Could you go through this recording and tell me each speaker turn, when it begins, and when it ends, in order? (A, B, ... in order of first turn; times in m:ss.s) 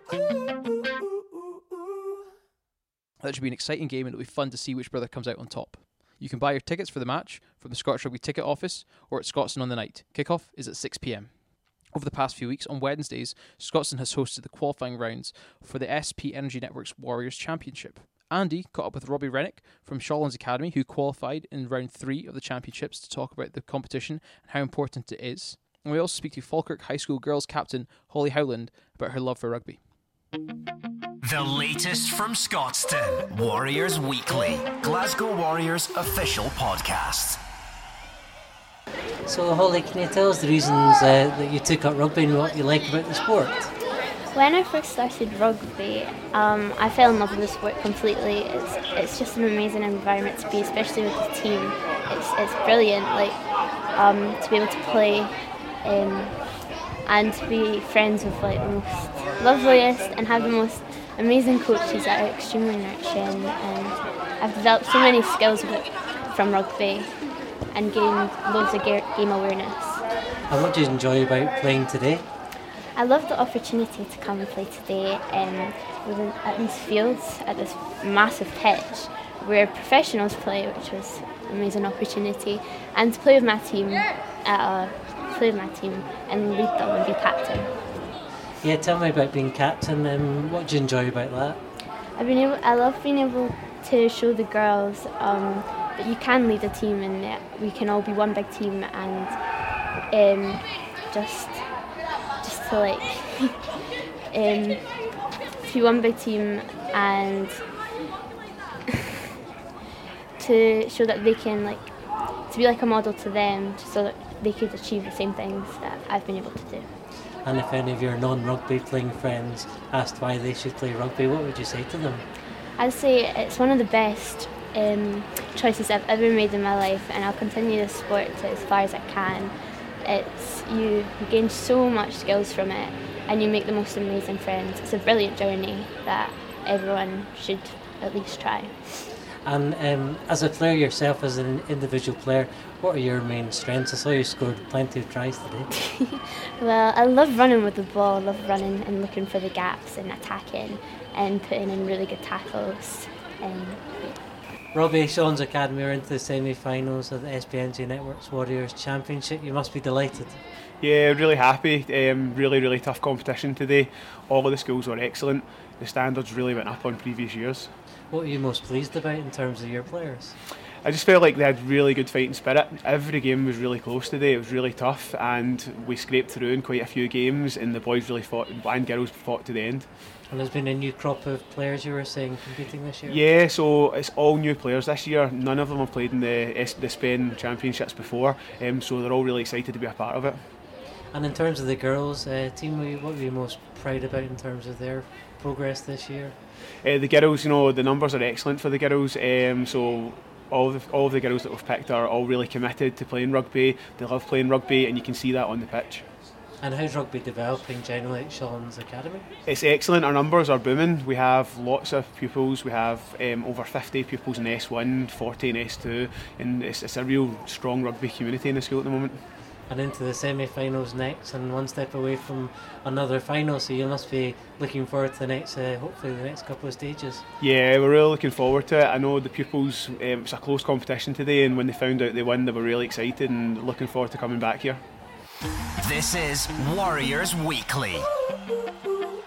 0:03.2-0:29.8 A
0:31.2-0:37.4 B
0:39.2-0:43.7 C
0:44.3-0:53.4 D
0:54.0-0:56.4 D
0:57.1-1:07.1 D
1:07.7-1:10.0 D
1:10.5-1:12.2 C
1:13.0-1:27.7 D
1:28.6-1:31.6 C
1:32.2-1:39.4 D
1:40.1-1:41.6 D
1:42.4-1:43.6 D
1:44.3-1:44.8 D
1:45.6-1:47.6 D
1:50.4-1:51.9 D
1:52.5-1:56.9 D
1:57.4-2:02.2 C
2:02.8-2:09.5 D
2:10.0-2:18.7 D
2:19.4-2:25.7 C
2:25.7-2:34.2 D
2:34.7-2:40.4 C
2:40.8-2:47.7 E
2:48.1-2:50.4 C
2:50.8-2:59.9 E
3:00.3-3:03.2 C
3:03.1-3:10.4 E
3:11.1-3:16.4 C
3:16.8-3:26.0 E
3:26.6-3:29.2 C
3:29.5-3:39.2 E
3:39.7-3:47.2 C
3:47.4-3:54.8 E
3:55.8-3:58.1 B